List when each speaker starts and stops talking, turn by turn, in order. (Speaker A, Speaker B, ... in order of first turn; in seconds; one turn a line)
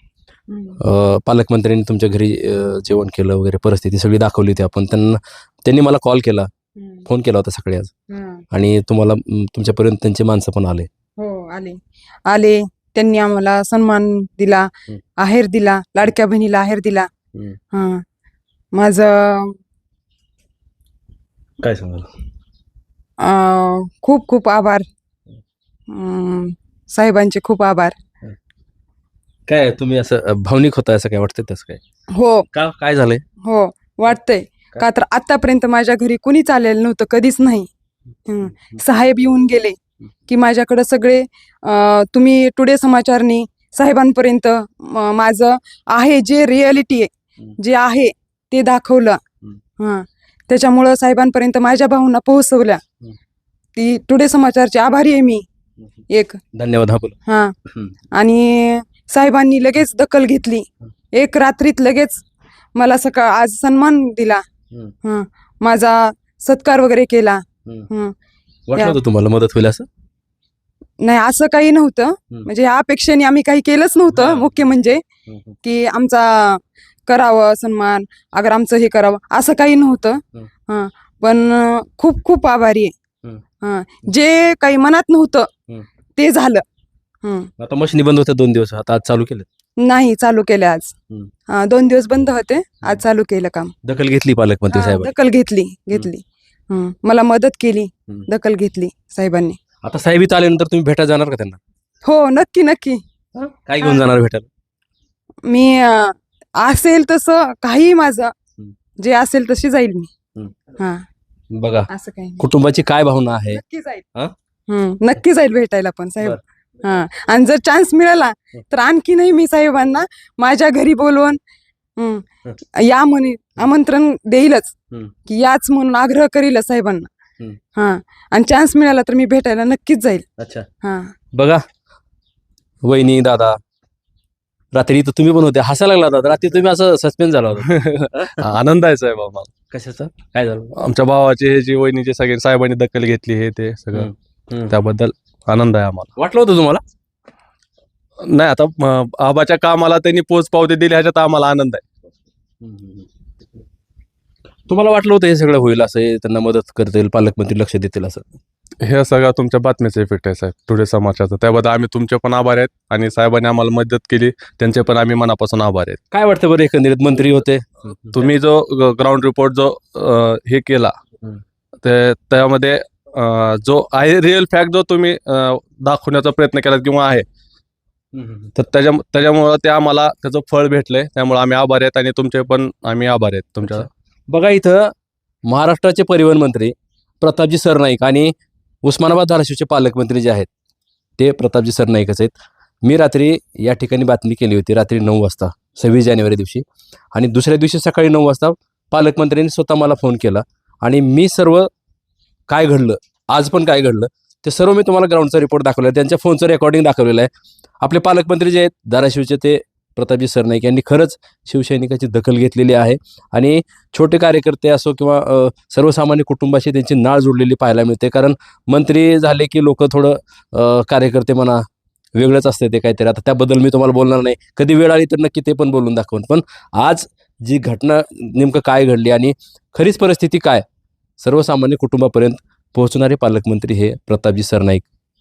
Speaker A: 0.5-0.8
Speaker B: 0.8-6.5
Speaker A: 6.8-7.0
Speaker B: 7.1-7.9
Speaker A: 8.1-8.4
Speaker B: 8.5-10.9
Speaker A: 11.2-17.1
Speaker A: 17.7-18.0
Speaker A: 18.8-19.6
Speaker B: 21.6-22.1
Speaker A: 23.2-24.9
Speaker A: 25.9-28.0
Speaker B: 29.5-31.8
Speaker A: 32.2-32.5
Speaker B: 32.5-33.2
Speaker A: 33.4-37.7
Speaker A: 38.3-49.2
Speaker B: 38.4-38.8
Speaker A: 49.8-52.8
Speaker A: 53.8-55.5
Speaker A: 56.1-56.4
Speaker B: 56.6-57.2
Speaker A: 57.3-57.5
Speaker A: 58.2-62.2
Speaker A: 62.8-64.4
Speaker A: 65.0-68.2
Speaker B: 68.7-69.9
Speaker A: 71.0-75.0
Speaker B: 74.1-74.5
Speaker B: 75.3-75.6
Speaker A: 75.6-82.9
Speaker A: 83.6-85.5
Speaker A: 86.2-86.6
Speaker A: 87.2-87.5
Speaker B: 87.6-89.5
Speaker A: 89.8-91.0
Speaker A: 91.5-93.7
Speaker B: 93.8-95.1
Speaker A: 94.7-99.6
Speaker B: 99.8-101.6
Speaker A: 102.0-103.0
Speaker B: 103.3-104.5
Speaker A: 103.8-104.1
Speaker A: 105.5-108.3
Speaker A: 109.0-110.1
Speaker A: 110.8-111.1
Speaker B: 111.5-111.9
Speaker A: 111.9-112.4
Speaker B: 112.4-113.6
Speaker A: 113.5-114.1
Speaker A: 114.7-121.4
Speaker A: 122.0-122.2
Speaker A: 122.8-124.8
Speaker A: 125.3-127.1
Speaker A: 127.8-130.2
Speaker B: 130.4-130.7
Speaker A: 130.8-131.2
Speaker B: 131.3-131.6
Speaker B: 132.8-133.6
Speaker B: 134.7-138.3
Speaker C: 138.4-139.5
Speaker B: 139.7-140.8
Speaker C: 140.7-144.1
Speaker B: 144.0-144.8
Speaker C: 144.7-146.1
Speaker B: 146.2-146.8
Speaker C: 148.2-151.9
Speaker B: 152.6-153.1
Speaker B: 154.7-158.3
Speaker C: 158.8-166.0
Speaker B: 166.1-167.7
Speaker C: 168.1-170.9
Speaker C: 171.8-177.3
Speaker B: 178.1-178.5
Speaker C: 178.6-183.9
Speaker B: 183.7-184.9
Speaker B: 185.5-188.3
Speaker B: 188.8-190.5
Speaker B: 191.2-201.7
Speaker B: 202.5-207.3
Speaker B: 207.8-221.7
Speaker B: 222.2-230.6
Speaker B: 231.2-234.8